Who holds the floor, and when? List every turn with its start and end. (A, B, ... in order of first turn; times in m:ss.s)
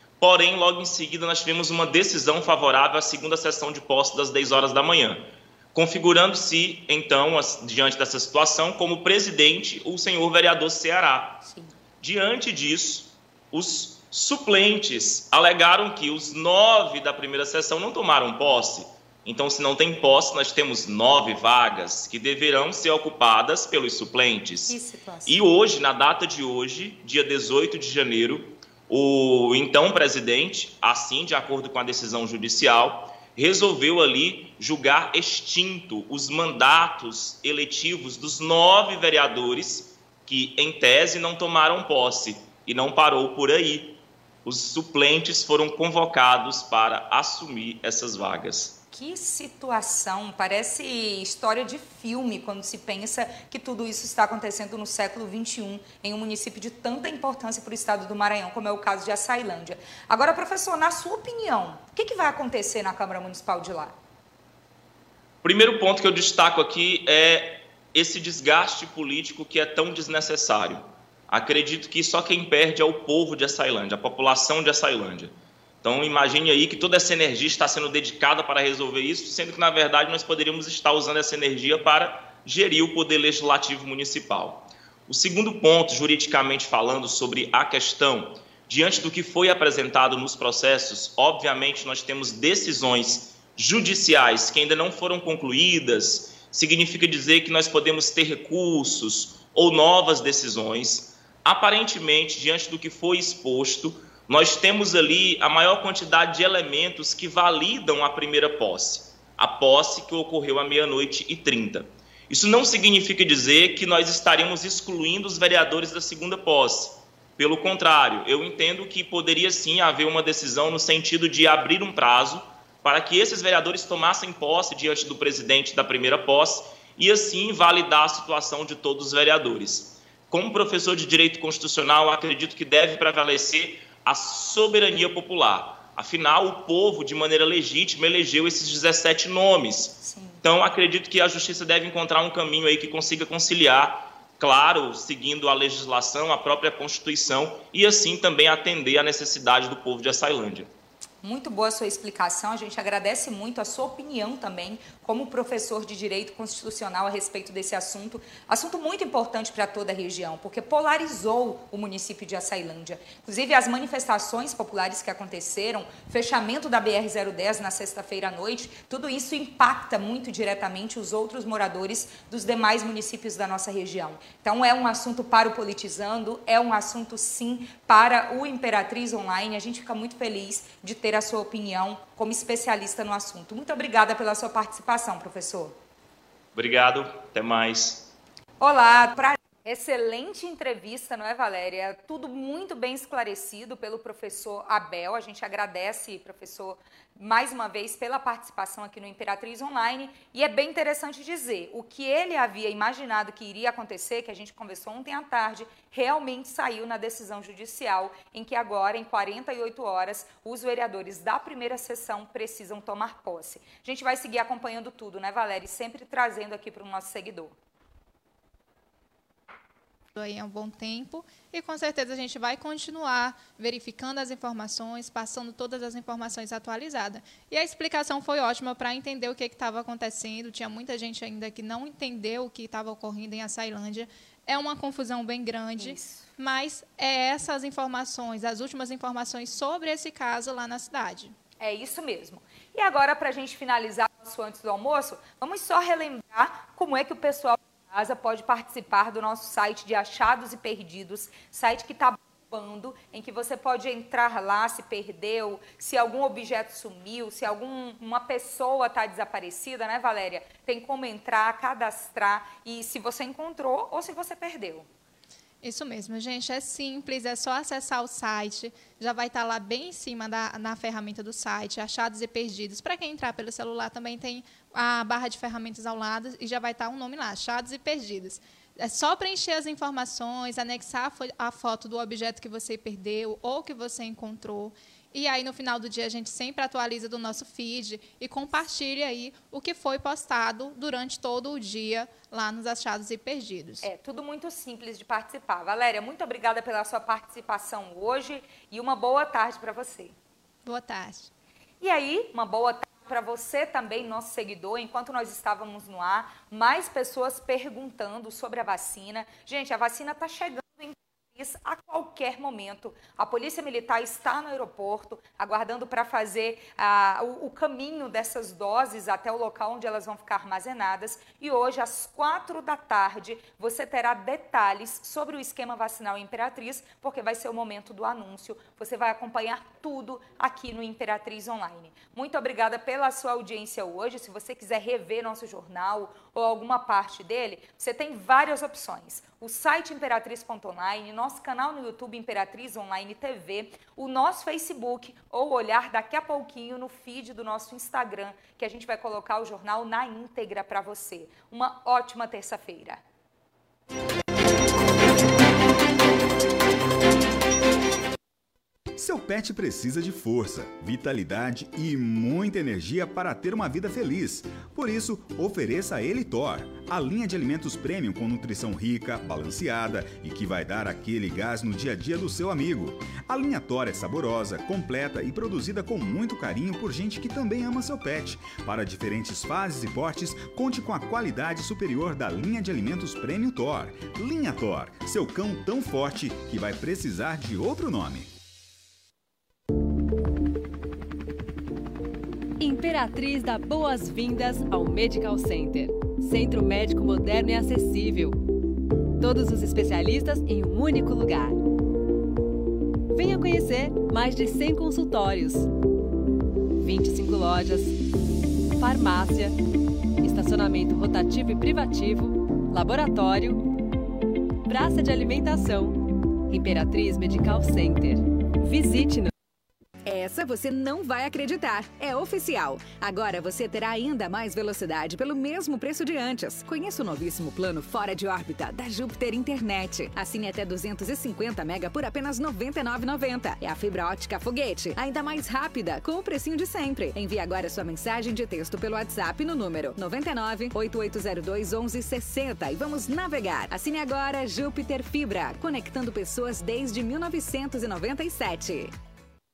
0:00.2-0:11.4 A
0:11.4-0:11.7 B
0:12.0-0:48.8 A
0:24.7-0:25.4 B
0:48.9-1:03.9 B
1:05.4-2:30.7 A
2:20.0-2:20.4 B
2:31.2-3:05.8 B
3:06.5-3:08.1 A
3:08.6-3:37.5 B
3:40.1-4:01.3 C
3:55.8-3:56.2 B
4:01.6-4:24.9 B
4:25.6-4:53.8 C
4:53.8-5:00.1 B
5:00.6-5:01.3 C
5:01.8-5:53.0 B
5:59.0-6:28.3 D
6:32.6-6:38.4 E
6:39.2-6:41.6 E
6:43.1-6:45.7 E
6:46.8-6:48.0 E
6:48.8-6:49.6 E
6:50.2-6:53.7 E
6:54.6-6:59.3 E
7:00.0-7:28.9 F